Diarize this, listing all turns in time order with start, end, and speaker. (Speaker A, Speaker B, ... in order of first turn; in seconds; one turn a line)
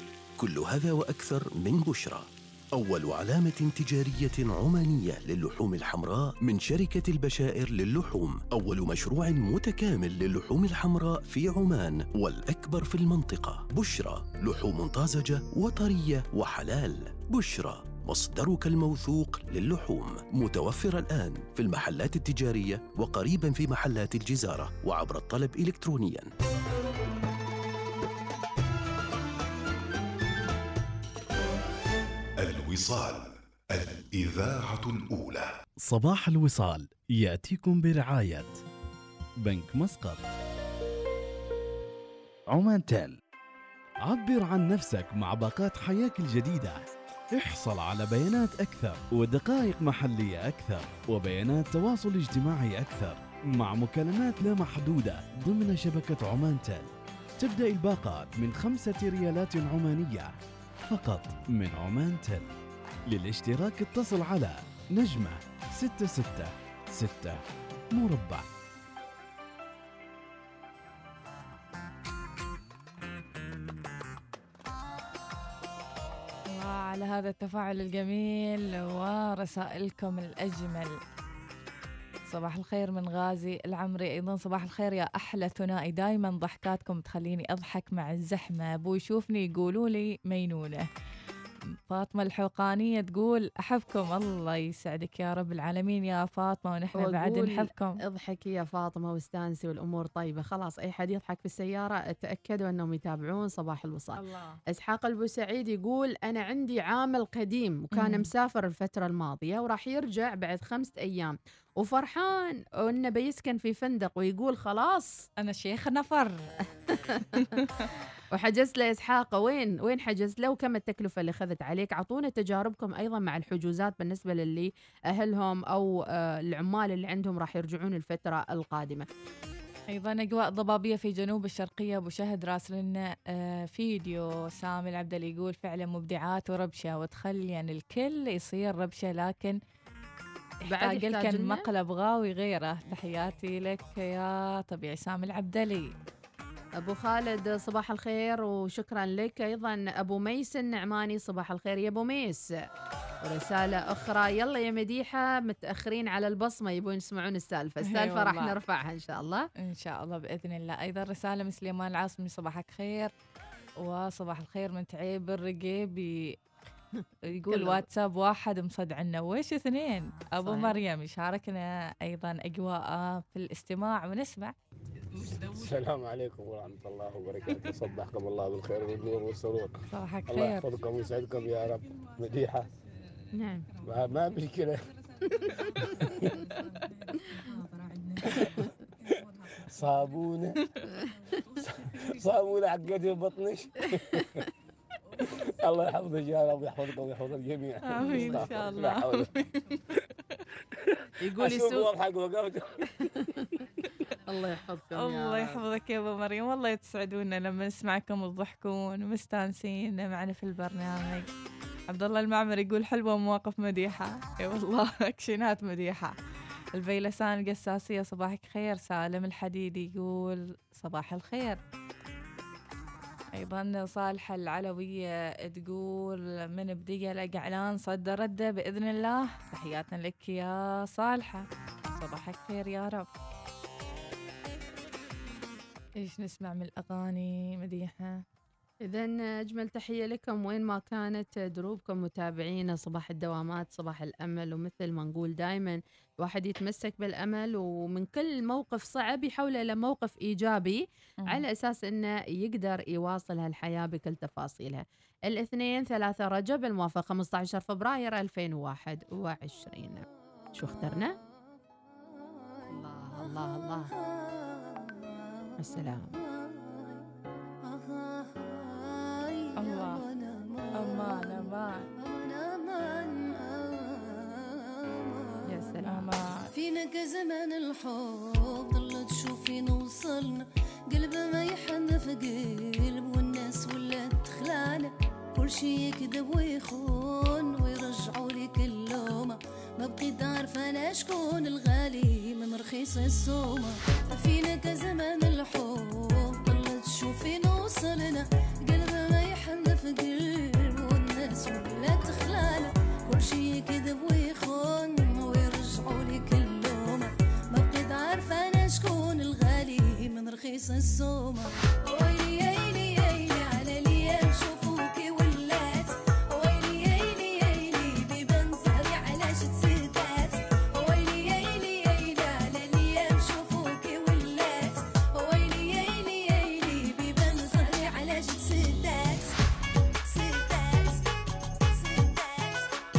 Speaker A: 0.4-26.3
Speaker B: 32.4-35.5
Speaker C: 35.8-38.6
Speaker C: 39.4-40.2
Speaker C: 42.5-43.1
Speaker C: 44.0-46.8
Speaker C: 47.3-56.9
Speaker C: 57.4-60.3
Speaker C: 60.9-62.5
Speaker C: 63.1-67.4
Speaker C: 67.9-68.5
Speaker D: 76.5-81.0
Speaker D: 82.3-90.8
Speaker D: 91.9-98.0
Speaker E: 97.0-104.2
Speaker D: 104.2-104.6
Speaker E: 104.7-115.2
Speaker D: 107.9-108.3
Speaker D: 115.4-116.3
Speaker E: 116.9-117.4
Speaker D: 117.3-117.9
Speaker E: 118.3-129.1
Speaker D: 129.9-139.6
Speaker E: 140.7-141.6
Speaker D: 140.7-145.9
Speaker E: 146.8-152.4
Speaker E: 153.2-159.4
Speaker D: 157.8-158.6
Speaker D: 159.6-163.1
Speaker D: 163.8-166.3
Speaker E: 166.9-167.8
Speaker D: 167.3-174.5
Speaker E: 170.4-170.8
Speaker F: 175.2-179.7
Speaker D: 179.9-180.7
Speaker F: 180.3-182.6
Speaker E: 183.4-183.7
Speaker F: 183.8-184.8
Speaker F: 185.9-186.3
Speaker D: 187.8-188.1
Speaker F: 189.6-190.6
Speaker F: 191.8-194.2
Speaker F: 195.2-199.3
Speaker D: 197.8-199.8
Speaker E: 198.1-198.4
Speaker E: 201.2-201.9
Speaker F: 201.4-202.9
Speaker E: 203.2-203.4
Speaker E: 204.2-205.6
Speaker D: 204.9-211.3
Speaker D: 211.9-216.2
Speaker D: 216.7-221.6
Speaker D: 223.3-233.1
Speaker D: 236.0-238.2
Speaker E: 238.8-261.1
Speaker E: 262.7-263.9
Speaker G: 263.1-265.6
Speaker E: 265.6-266.1
Speaker G: 266.1-267.1
Speaker G: 267.6-275.6
Speaker D: 269.6-270.0
Speaker D: 270.8-271.9
Speaker E: 275.5-276.1
Speaker D: 275.8-276.5
Speaker G: 276.5-329.4
Speaker G: 330.0-331.1
Speaker G: 331.6-332.6